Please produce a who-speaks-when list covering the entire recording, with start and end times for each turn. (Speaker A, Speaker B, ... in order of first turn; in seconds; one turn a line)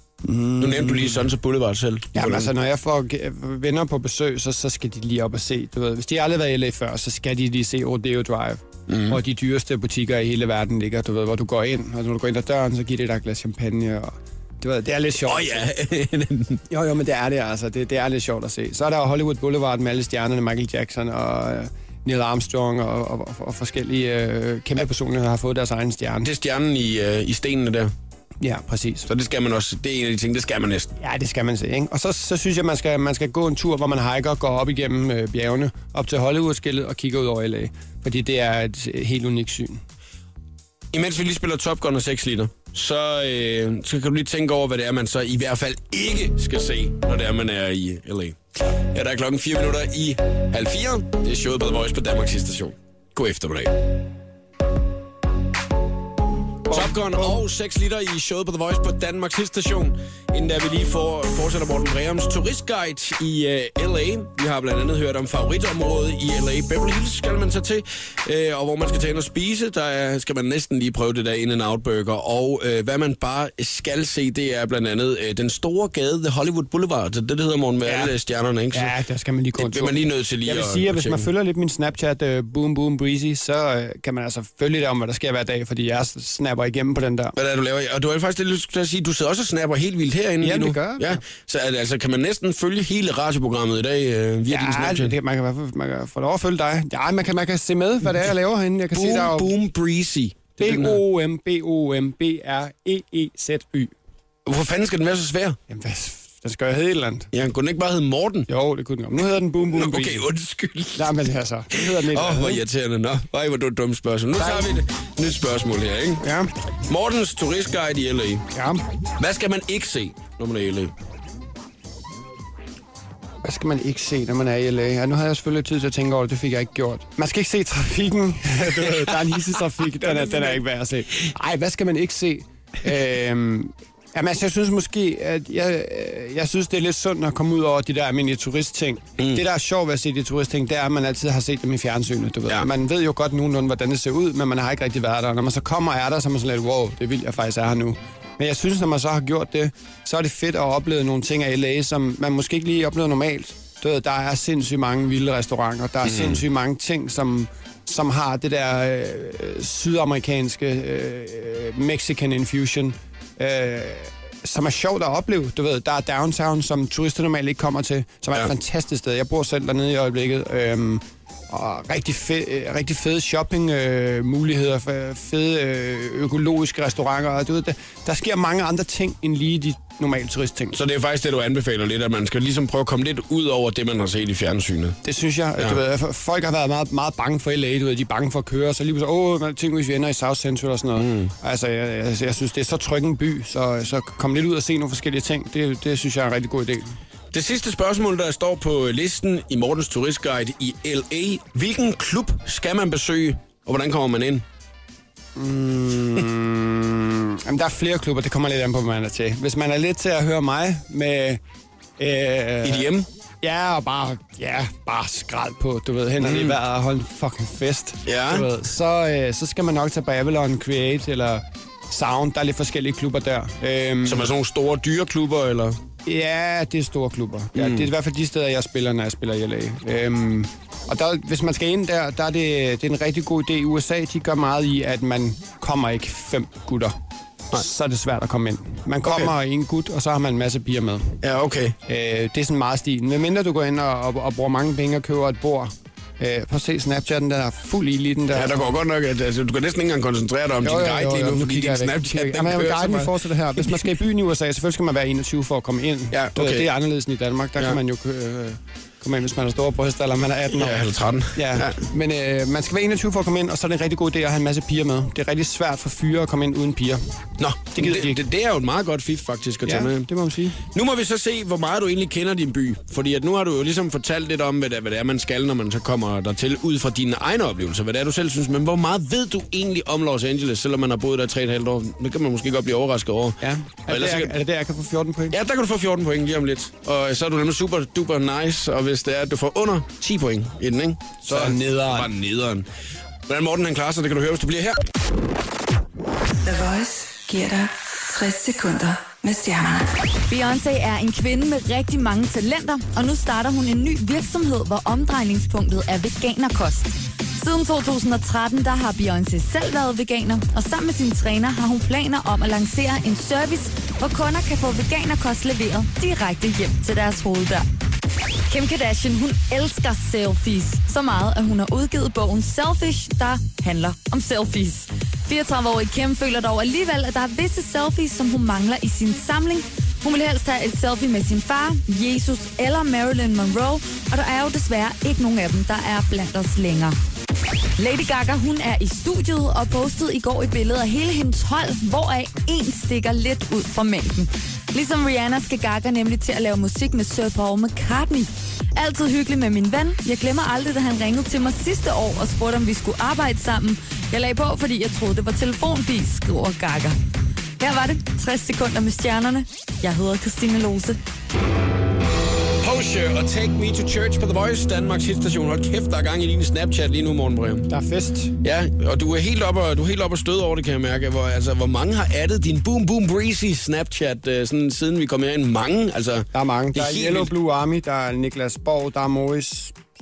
Speaker A: 0.2-1.3
Speaker B: 0.6-2.5
Speaker A: 2.1-15.7
Speaker B: 8.9-9.2
Speaker B: 15.2-16.6
Speaker A: 16.7-26.3
Speaker B: 26.2-27.9
Speaker A: 28.4-29.1
Speaker B: 29.1-30.9
Speaker A: 31.0-39.8
Speaker B: 40.9-53.7
Speaker A: 56.7-57.4
Speaker B: 56.7-78.9
Speaker A: 77.8-78.1
Speaker A: 78.7-87.3
Speaker B: 79.6-81.3
Speaker B: 87.3-95.2
Speaker A: 90.4-91.2
Speaker A: 94.5-99.5
Speaker B: 98.9-101.0
Speaker A: 100.6-103.9
Speaker B: 104.4-105.6
Speaker A: 105.7-107.3
Speaker B: 107.3-108.5
Speaker A: 108.5-110.3
Speaker B: 109.7-116.2
Speaker A: 110.9-112.6
Speaker A: 114.3-114.8
Speaker A: 116.2-116.5
Speaker B: 116.9-118.5
Speaker A: 118.5-118.8
Speaker B: 119.2-120.9
Speaker A: 123.4-180.8
Speaker B: 128.7-130.6
Speaker B: 156.0-156.4
Speaker B: 180.7-185.0
Speaker A: 185.0-197.0
Speaker B: 191.0-191.3
Speaker B: 197.3-204.4
Speaker A: 205.3-211.4
Speaker A: 212.0-212.9
Speaker B: 212.6-213.1
Speaker A: 213.4-224.3
Speaker B: 216.2-216.6
Speaker B: 218.1-218.5
Speaker B: 224.0-225.8
Speaker A: 226.1-236.9
Speaker B: 227.5-227.9
Speaker A: 237.5-241.2
Speaker B: 239.0-239.3
Speaker B: 241.2-241.8
Speaker A: 241.9-248.7
Speaker B: 248.3-253.9
Speaker A: 250.6-267.1
Speaker B: 256.1-256.7
Speaker B: 260.5-261.8
Speaker B: 267.4-270.1
Speaker A: 267.7-268.2
Speaker A: 269.6-270.6
Speaker B: 270.6-284.4
Speaker A: 283.4-285.4
Speaker B: 285.3-292.7
Speaker A: 291.2-292.1
Speaker B: 293.3-294.8
Speaker C: 296.4-299.9
Speaker D: 300.3-317.6
Speaker D: 318.5-336.9
Speaker D: 337.8-357.0
Speaker D: 357.6-361.0
Speaker B: 362.6-367.7
Speaker A: 367.7-368.3
Speaker B: 368.4-377.3
Speaker A: 376.3-379.8